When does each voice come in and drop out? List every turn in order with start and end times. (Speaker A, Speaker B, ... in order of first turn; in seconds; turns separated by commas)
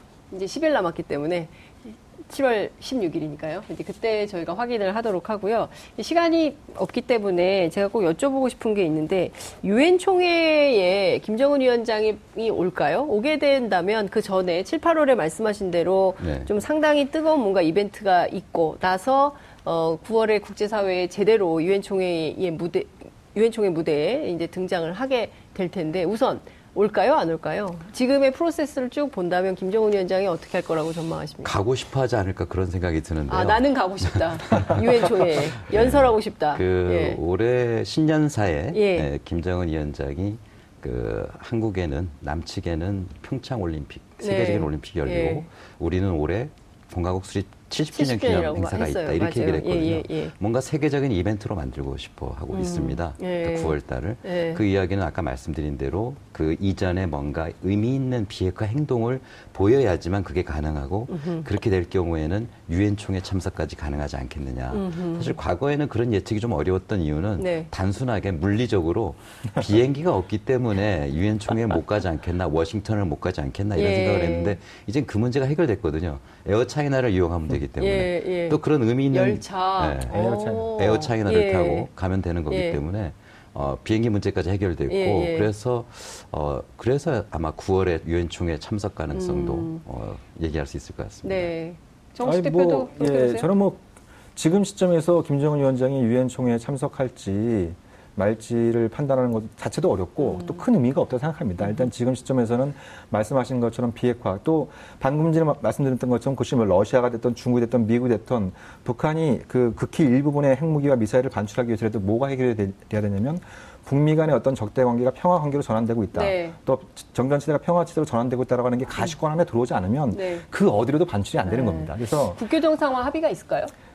Speaker A: 0.3-31.5, Speaker B: 16.2-16.5, Speaker B: 31.4-80.1, Speaker A: 33.3-37.2, Speaker A: 38.7-39.1, Speaker A: 44.2-45.5, Speaker A: 47.9-50.3, Speaker A: 52.5-54.6, Speaker A: 61.1-61.5, Speaker A: 64.7-65.3, Speaker A: 67.4-67.7, Speaker A: 73.8-74.6, Speaker A: 77.8-78.6, Speaker A: 79.1-81.9, Speaker C: 80.1-80.9, Speaker B: 80.8-91.5, Speaker A: 82.5-82.8, Speaker A: 84.9-85.5, Speaker A: 89.1-89.8, Speaker A: 91.2-93.5, Speaker C: 92.2-122.4, Speaker A: 100.2-100.6, Speaker A: 116.1-116.6, Speaker A: 120.1-120.4, Speaker A: 121.5-123.7